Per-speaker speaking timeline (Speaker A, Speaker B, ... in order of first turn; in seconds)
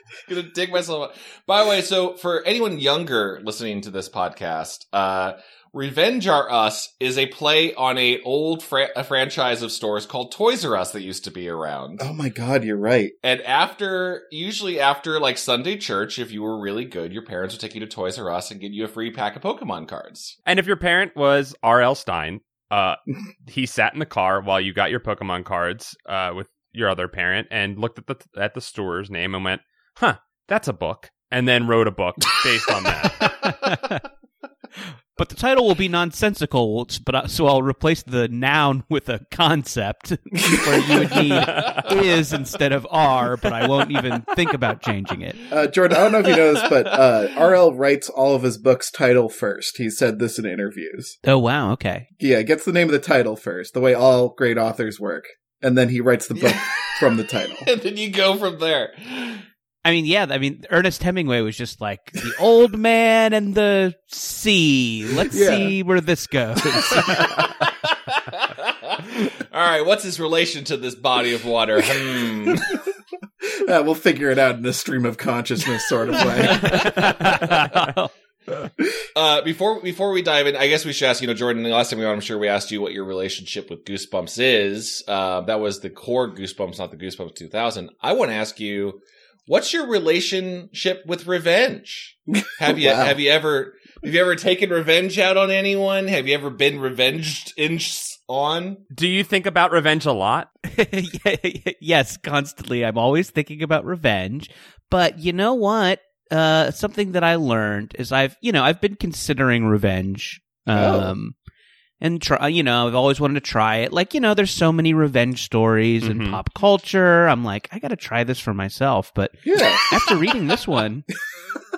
Speaker A: 0.3-12.1, 13.2-20.4, 46.2-47.0, 56.4-57.0, 57.6-59.5, 67.7-72.8, 79.2-98.8
Speaker B: 12.0-13.1, 45.5-51.2, 52.2-57.7, 65.3-65.7, 73.5-76.9, 92.7-93.2, 110.7-111.1, 119.5-120.0
Speaker C: 20.5-33.5, 41.5-41.8, 98.9-100.5, 116.0-116.4
Speaker D: 33.4-34.0, 35.2-45.4, 51.2-52.1, 59.8-67.4, 76.5-78.1, 100.7-111.3, 112.0-121.1